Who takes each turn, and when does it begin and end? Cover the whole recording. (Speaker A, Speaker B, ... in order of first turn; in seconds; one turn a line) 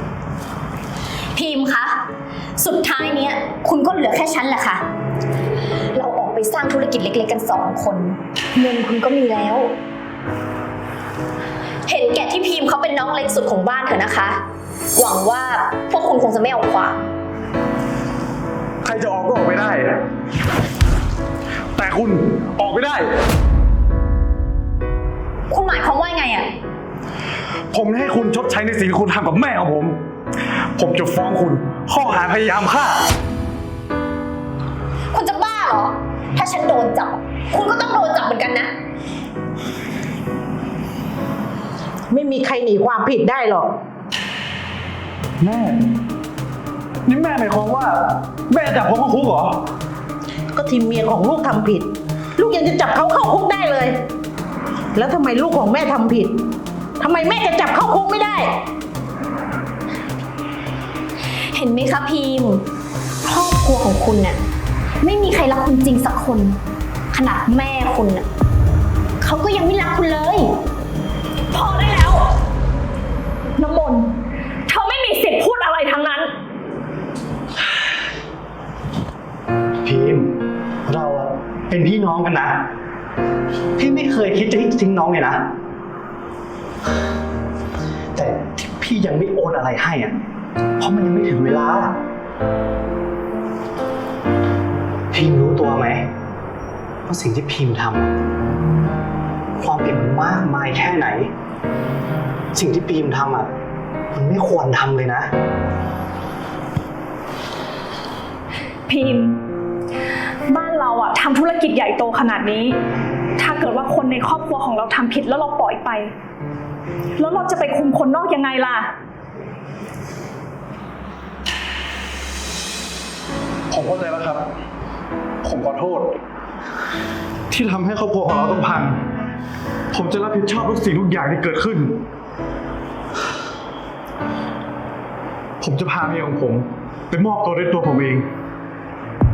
Speaker A: 1.4-2.1
Speaker A: 2.6-4.8
Speaker A: 6.0-9.8
Speaker A: 11.9-14.4
Speaker A: 14.9-17.0
Speaker B: 18.8-20.0
Speaker B: 21.8-23.1
Speaker A: 25.5-26.5
Speaker B: 27.7-30.0
Speaker B: 30.8-33.1
Speaker A: 35.1-38.7
Speaker C: 42.1-43.7
Speaker B: 45.4-45.8
Speaker B: 47.1-49.6
Speaker C: 50.5-54.0
Speaker C: 55.0-56.4
Speaker C: 57.0-58.6
Speaker A: 61.5-62.6
Speaker A: 63.2-64.4
Speaker A: 65.0-66.6
Speaker A: 67.1-68.3
Speaker A: 69.2-70.6
Speaker D: 71.5-72.3
Speaker D: 73.6-76.3
Speaker E: 79.8-82.7
Speaker E: 83.8-85.5
Speaker E: 88.2-90.2
Speaker E: 90.8-92.0
Speaker E: 95.1-96.1
Speaker E: 97.1-98.1
Speaker E: 99.6-101.3
Speaker E: 102.5-103.5
Speaker E: 104.1-105.3
Speaker D: 108.9-109.4
Speaker D: 110.5-112.8
Speaker D: 113.4-116.1
Speaker D: 117.2-118.9
Speaker B: 123.7-124.4
Speaker B: 125.4-126.2
Speaker B: 127.5-129.0
Speaker B: 129.9-132.0
Speaker B: 135.6-138.2